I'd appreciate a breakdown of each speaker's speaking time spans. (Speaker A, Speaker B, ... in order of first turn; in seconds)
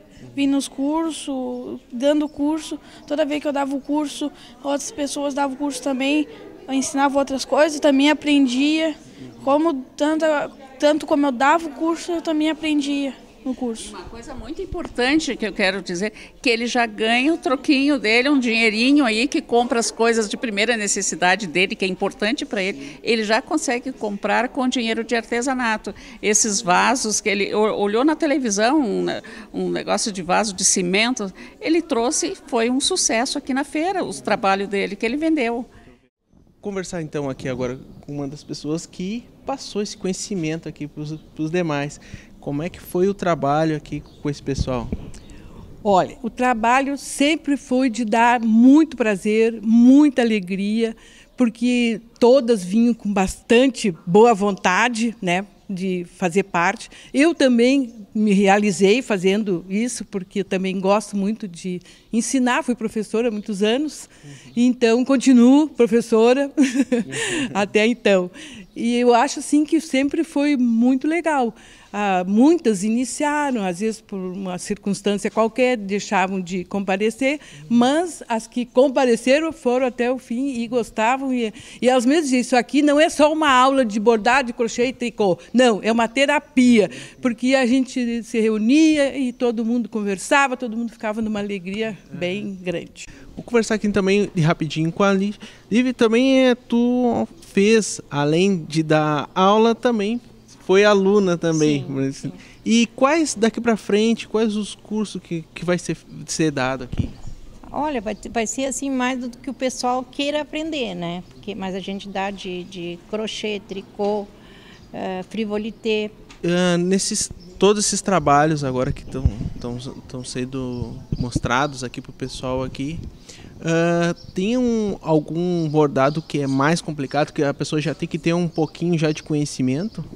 Speaker A: 0.3-13.9
Speaker B: 13.7-35.7
Speaker C: 36.6-44.9, 93.3-107.2, 116.4-123.0, 123.6-130.1
Speaker D: 45.8-93.0
Speaker E: 101.5-102.0, 107.7-114.3, 114.9-116.1